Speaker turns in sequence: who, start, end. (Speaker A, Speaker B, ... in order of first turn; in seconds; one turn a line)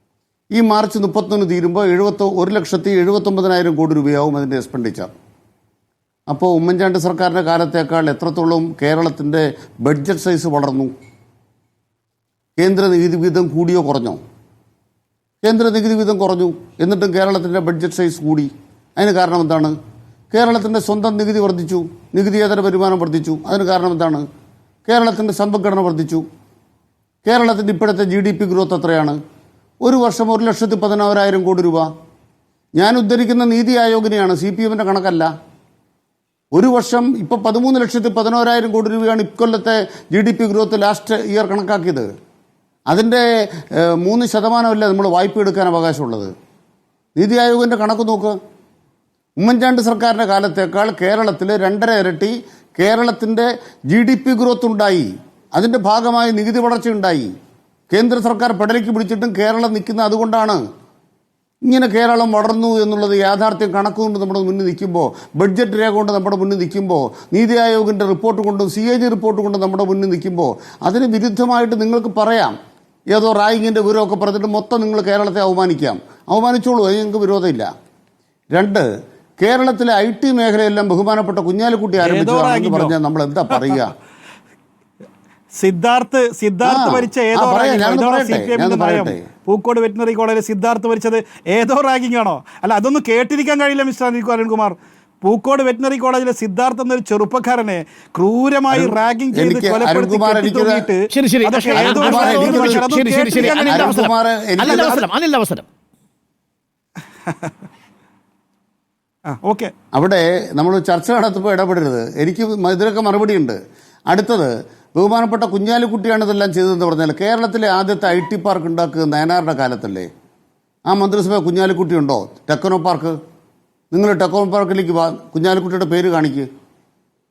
Speaker A: 0.6-5.1
Speaker A: 6.3-10.9
Speaker A: 12.6-14.2
Speaker A: 15.4-19.8
Speaker A: 20.3-24.2
Speaker A: 24.9-26.2
Speaker A: 27.2-29.2
Speaker A: 29.8-31.9
Speaker A: 32.8-35.3
Speaker A: 36.5-42.1
Speaker A: 42.9-46.3
Speaker A: 47.2-48.4
Speaker A: 49.4-57.3
Speaker A: 57.9-60.6
Speaker A: 61.7-72.5
Speaker A: 73.1-77.7
Speaker A: 78.5-78.8
Speaker A: 79.4-83.9
Speaker B: 82.0-82.9
Speaker B: 85.5-104.0
Speaker A: 86.6-89.2
Speaker A: 98.7-100.9
Speaker C: 101.1-105.7
Speaker A: 101.8-102.9
Speaker A: 103.5-105.0
Speaker B: 104.6-105.0
Speaker B: 109.3-109.7
Speaker A: 109.9-113.5
Speaker A: 114.1-120.1
Speaker A: 120.9-123.2
Speaker A: 123.9-126.5